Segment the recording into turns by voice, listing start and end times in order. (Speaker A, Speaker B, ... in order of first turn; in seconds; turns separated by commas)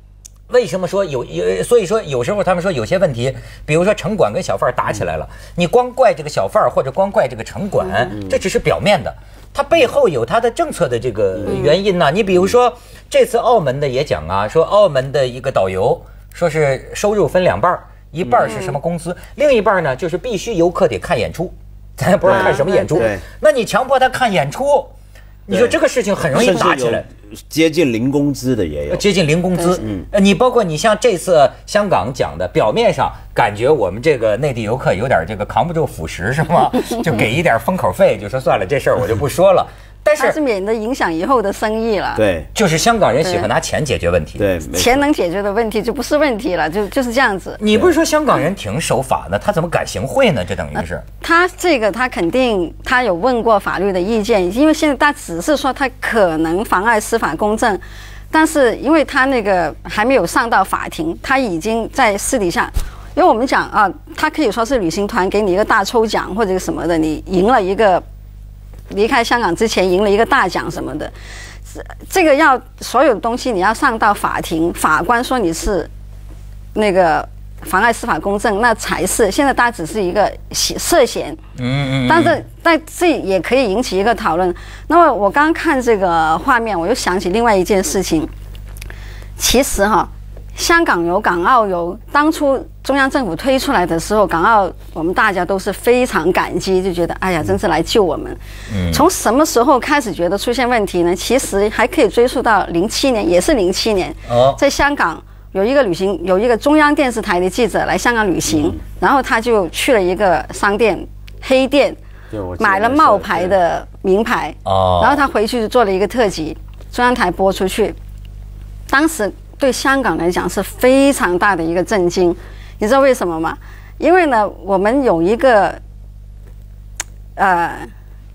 Speaker A: 0.5-24.9, Speaker B: 11.4-11.7, Speaker C: 18.4-18.8, Speaker B: 22.2-23.2, Speaker C: 22.3-23.1, Speaker A: 25.5-27.0, Speaker B: 25.5-25.8, Speaker B: 26.3-29.0, Speaker A: 28.9-40.4, Speaker B: 29.8-30.1, Speaker C: 40.2-42.2, Speaker B: 42.1-42.5, Speaker A: 42.5-44.5, Speaker C: 43.2-43.5, Speaker B: 44.4-45.0, Speaker C: 44.7-47.6, Speaker A: 47.6-51.0, Speaker C: 50.7-68.0, Speaker C: 68.9-71.1, Speaker C: 71.7-75.9, Speaker C: 76.8-81.4, Speaker A: 81.6-82.4, Speaker C: 82.0-88.3, Speaker C: 89.4-98.4, Speaker A: 98.7-99.0, Speaker C: 98.9-112.0, Speaker A: 104.3-104.6, Speaker B: 108.5-108.8, Speaker B: 112.3-113.5, Speaker C: 112.6-118.0, Speaker A: 114.6-115.2, Speaker C: 118.9-125.8, Speaker C: 127.4-127.9